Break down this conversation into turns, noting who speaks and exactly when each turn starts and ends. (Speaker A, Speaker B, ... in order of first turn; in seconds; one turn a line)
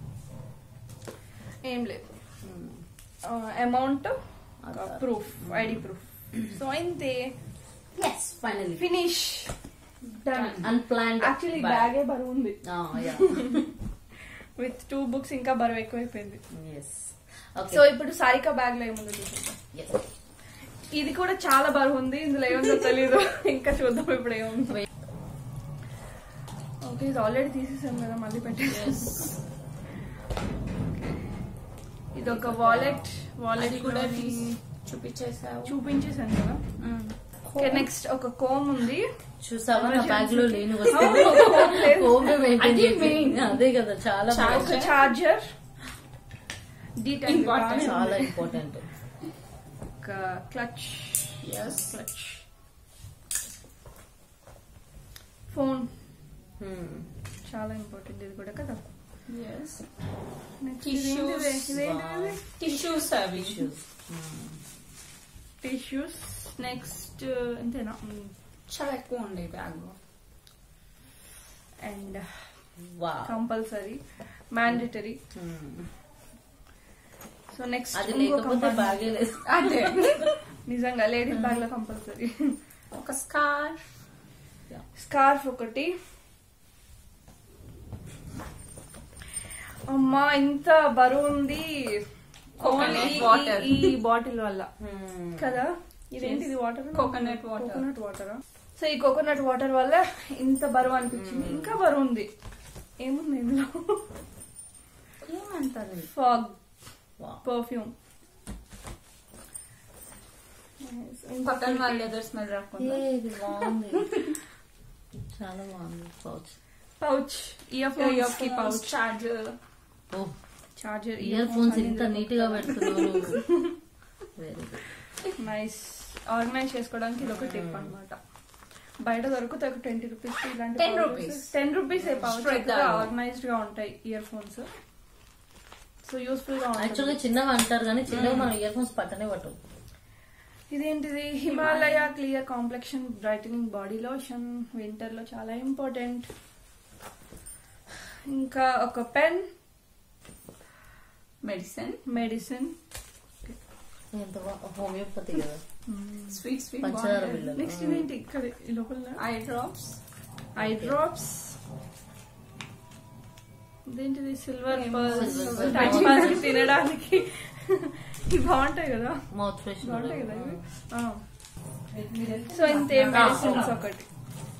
Speaker A: 1.6-2.2
Speaker B: 2.4-2.8
Speaker A: 3.2-7.3
Speaker B: 4.6-5.8
Speaker B: 7.9-8.8
Speaker A: 8.8-13.6
Speaker C: 10.3-10.7
Speaker B: 10.6-11.9
Speaker B: 12.6-13.6
Speaker A: 14.6-16.4
Speaker B: 16.5-17.8
Speaker A: 17.7-19.6
Speaker B: 19.7-20.0
Speaker A: 20.9-24.8
Speaker A: 26.8-29.2
Speaker C: 28.6-29.4
Speaker A: 30.9-31.4
Speaker A: 32.1-34.6
Speaker B: 32.2-33.1
Speaker C: 33.5-35.8
Speaker A: 35.6-36.6
Speaker C: 36.8-37.9
Speaker A: 37.5-39.1
Speaker B: 39.4-44.8
Speaker A: 39.7-42.4
Speaker C: 42.6-43.6
Speaker C: 44.3-45.1
Speaker A: 44.5-45.5
Speaker A: 47.0-48.5
Speaker C: 47.2-48.1
Speaker B: 47.7-48.9
Speaker A: 50.0-52.4
Speaker C: 51.4-51.9
Speaker A: 55.5-55.9
Speaker B: 56.6-57.1
Speaker A: 57.4-58.8
Speaker C: 59.2-59.9
Speaker A: 60.6-62.6
Speaker C: 60.8-61.6
Speaker B: 61.7-64.6
Speaker C: 62.6-63.7
Speaker A: 65.6-68.3
Speaker C: 68.7-70.0
Speaker A: 71.8-75.2
Speaker B: 72.8-73.4
Speaker B: 74.7-75.9
Speaker A: 77.5-79.2
Speaker B: 77.9-79.5
Speaker C: 79.4-80.4
Speaker A: 80.6-82.5
Speaker C: 82.9-83.9
Speaker A: 84.9-85.9
Speaker A: 89.9-94.7
Speaker C: 92.6-93.9
Speaker B: 94.8-95.6
Speaker A: 95.4-102.3
Speaker C: 96.2-97.8
Speaker B: 101.1-101.8
Speaker A: 103.0-104.0
Speaker C: 105.2-106.1
Speaker A: 106.1-107.9
Speaker A: 110.8-112.1
Speaker C: 111.4-113.7
Speaker B: 112.8-114.1
Speaker B: 115.3-116.5
Speaker A: 117.0-119.0
Speaker C: 117.9-119.6
Speaker B: 120.1-120.4
Speaker A: 120.8-123.7
Speaker B: 121.2-123.4
Speaker B: 124.3-124.8
Speaker A: 125.3-134.7
Speaker B: 127.2-127.9
Speaker C: 130.7-131.5
Speaker B: 132.0-132.3
Speaker C: 132.2-133.1
Speaker A: 136.0-137.2
Speaker B: 136.8-139.6
Speaker C: 138.1-138.5
Speaker A: 140.7-146.3
Speaker C: 141.4-142.1
Speaker A: 148.3-149.5
Speaker C: 151.4-152.0
Speaker A: 152.1-152.7
Speaker B: 154.1-155.6
Speaker A: 155.8-156.4
Speaker C: 156.3-157.4
Speaker B: 156.8-158.1
Speaker A: 157.5-159.2
Speaker C: 159.2-160.0
Speaker A: 160.5-161.6
Speaker B: 160.6-161.0
Speaker A: 163.8-169.3
Speaker C: 164.7-166.5
Speaker B: 165.1-166.5
Speaker B: 169.3-170.6
Speaker A: 169.8-171.2
Speaker C: 172.2-173.8
Speaker A: 172.5-174.1
Speaker B: 173.1-173.8